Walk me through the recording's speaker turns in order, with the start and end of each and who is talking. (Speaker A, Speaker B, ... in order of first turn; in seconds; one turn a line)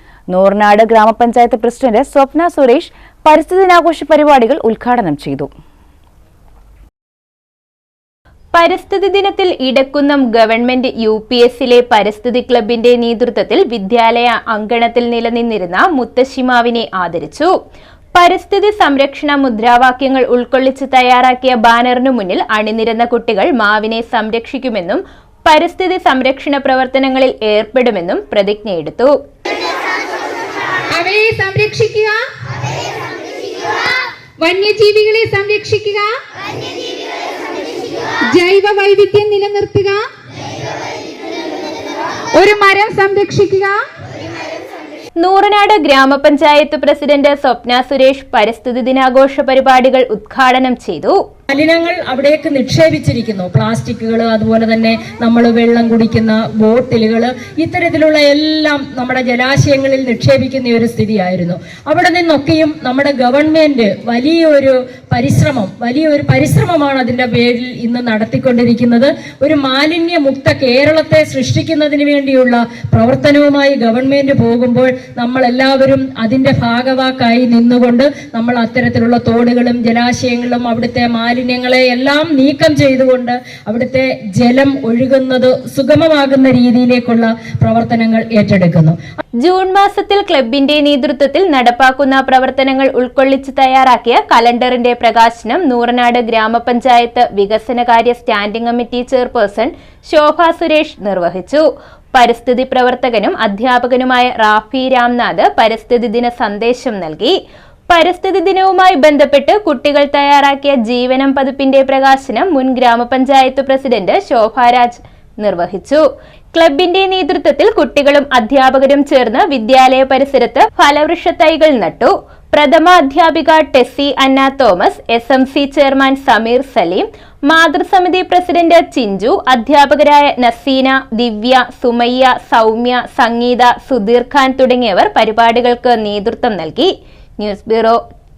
Speaker A: 0.3-5.5
Speaker B: 8.5-17.5
Speaker B: 18.1-29.1
Speaker C: 30.9-32.2
Speaker C: 34.4-36.1
Speaker C: 38.3-40.0
Speaker C: 42.4-43.8
Speaker B: 45.2-51.2
Speaker D: 51.5-89.0
Speaker B: 89.4-107.3
Speaker B: 107.9-116.0
Speaker B: 116.5-138.0